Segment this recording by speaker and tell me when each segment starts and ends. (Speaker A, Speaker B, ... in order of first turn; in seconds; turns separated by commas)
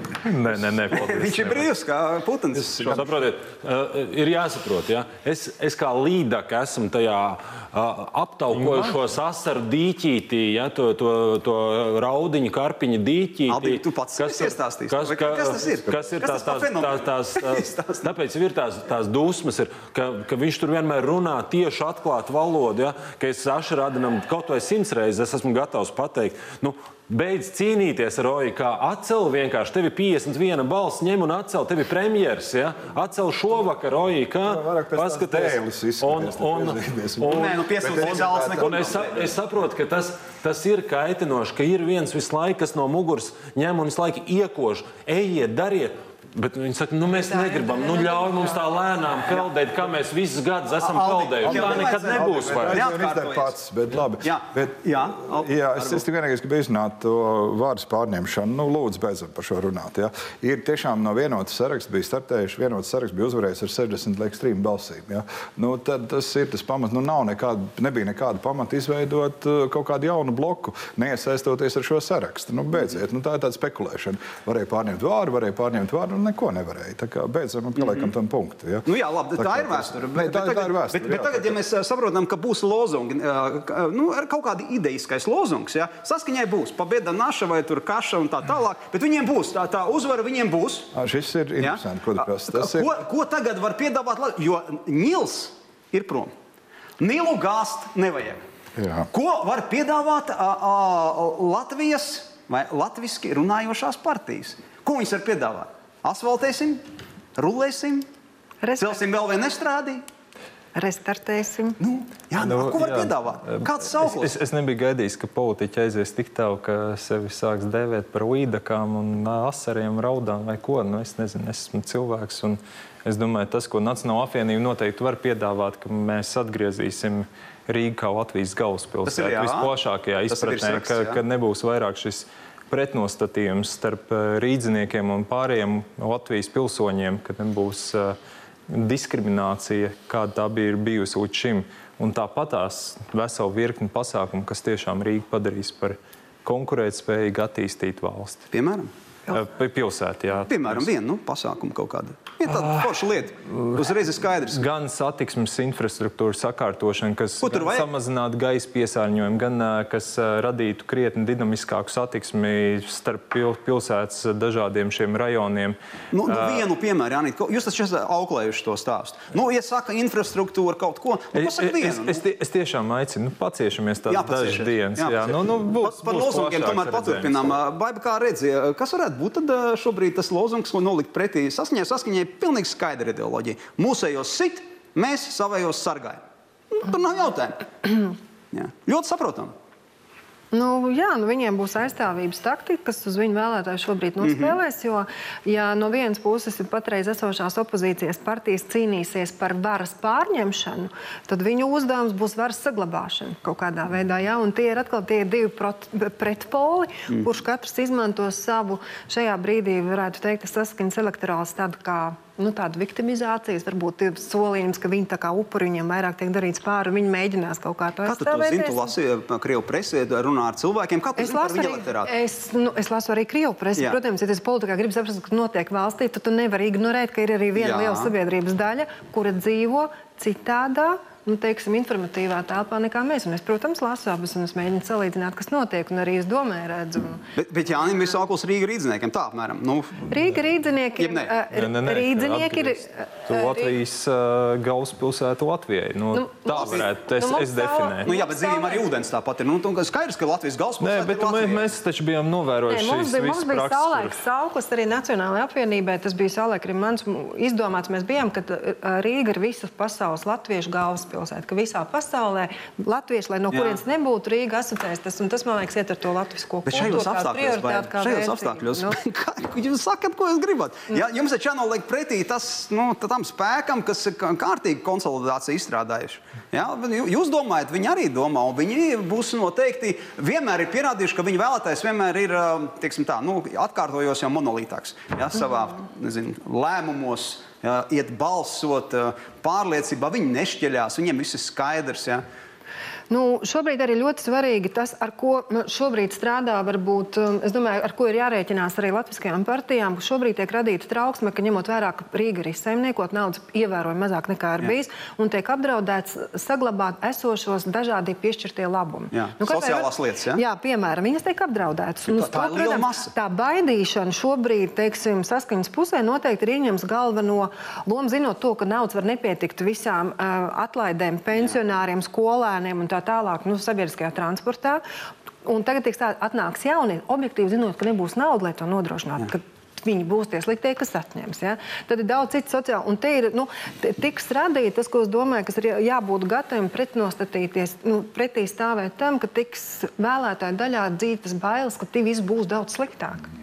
Speaker A: 0.2-1.7, Speaker B: 0.9-3.1, Speaker C: 2.6-52.9, Speaker A: 8.5-8.9, Speaker B: 13.5-18.1, Speaker D: 34.4-39.2, Speaker B: 37.3-39.2, Speaker E: 47.1-48.6, Speaker B: 50.8-53.5, Speaker D: 51.4-81.6, Speaker B: 54.2-56.0, Speaker B: 77.8-78.1, Speaker B: 78.8-90.9, Speaker D: 90.9-93.0, Speaker B: 91.6-96.3, Speaker B: 97.0-98.4, Speaker D: 98.8-99.1, Speaker B: 99.1-106.8, Speaker B: 107.3-108.1, Speaker E: 108.6-109.0, Speaker B: 108.8-110.0, Speaker E: 110.7-111.8, Speaker B: 111.8-114.3, Speaker A: 112.3-138.2, Speaker B: 129.1-129.7, Speaker B: 130.3-131.2, Speaker A: 138.7-148.4, Speaker B: 148.5-148.9, Speaker A: 149.3-150.8, Speaker B: 150.5-154.6, Speaker A: 152.5-152.9, Speaker A: 153.5-153.8, Speaker A: 154.5-166.6, Speaker B: 157.4-157.9, Speaker B: 166.1-172.2, Speaker A: 171.3-177.6, Speaker B: 174.1-187.7, Speaker B: 188.5-189.5, Speaker E: 190.5-218.9, Speaker B: 194.2-194.6, Speaker B: 218.1-222.1, Speaker E: 221.2-237.2, Speaker B: 227.6-228.1, Speaker B: 237.3-240.2, Speaker E: 240.1-243.7, Speaker B: 240.9-241.3, Speaker A: 241.5-248.1, Speaker E: 246.1-248.8, Speaker B: 246.5-246.9, Speaker B: 248.0-251.7, Speaker A: 250.8-254.2, Speaker E: 252.7-269.0, Speaker B: 263.5-263.8, Speaker B: 266.6-292.2, Speaker E: 293.1-324.8, Speaker B: 309.1-310.4, Speaker B: 312.1-313.1, Speaker E: 325.4-343.3